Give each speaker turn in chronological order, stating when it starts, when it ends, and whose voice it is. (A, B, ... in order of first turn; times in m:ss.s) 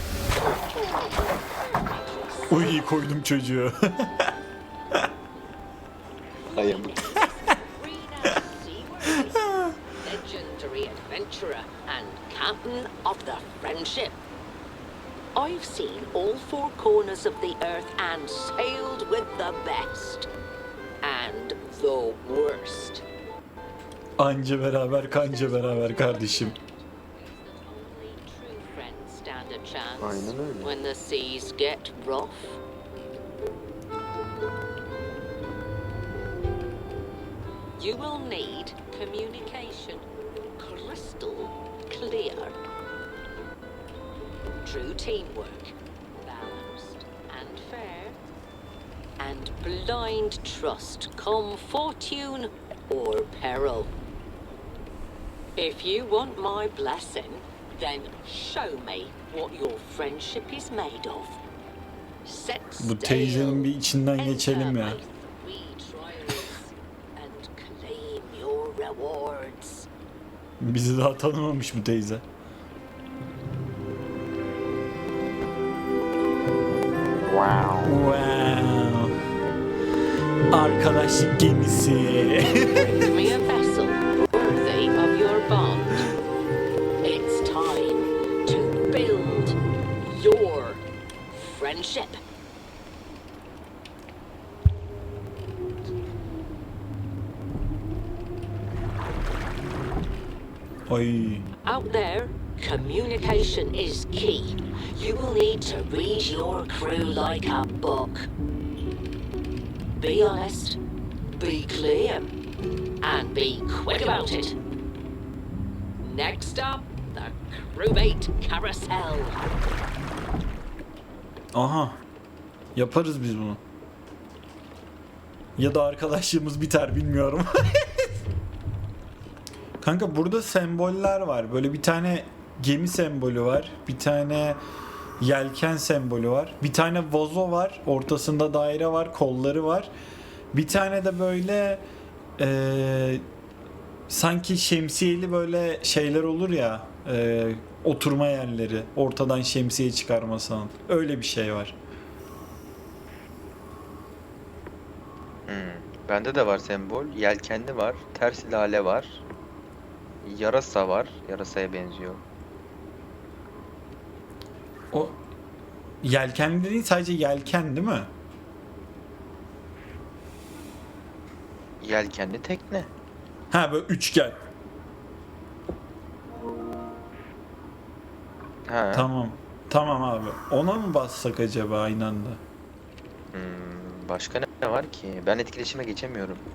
0:00.3-0:02.8 A
0:02.5-0:04.3 B
0:06.4-0:14.2 A
0:06.5-0:07.1 C
0:09.1-0:09.7 B
0:15.3-0:20.3 A
0:21.0-0:23.0 A
0:24.2-0:26.6 B
0:25.0-0:32.6 A
0:30.0-0:30.7 C
0:37.8-0:40.0 A
0:40.6-0:42.6 A
0:44.6-0:48.2 A
0:49.2-0:53.9 A
0:55.6-1:01.4 A
1:02.2-1:09.9 A
1:02.8-1:05.0 B
1:10.6-1:12.2 B
1:17.3-1:17.9 C
1:17.8-1:19.1 B
1:20.5-1:22.9 B
1:22.7-1:26.1 A
1:27.0-1:30.8 A
1:31.3-1:32.2 A
1:40.9-1:41.4 B
1:41.6-1:48.3 A
1:50.0-1:50.8 A
1:51.4-1:52.3 A
1:53.0-1:54.6 A
1:56.0-1:59.4 A
2:01.5-2:02.0 B
2:02.8-2:03.6 B
2:05.6-2:08.1 B
2:09.8-2:14.6 B
2:15.2-2:19.9 B
2:20.5-2:21.8 B
2:22.4-2:23.2 B
2:24.1-2:31.8 B
2:35.5-2:39.2 C
2:40.2-2:42.2 C
2:46.0-2:48.1 B
2:51.8-2:52.9 C
2:53.5-2:54.4 B
2:58.7-2:59.1 C
2:58.9-3:02.4 B
3:03.3-3:06.4 C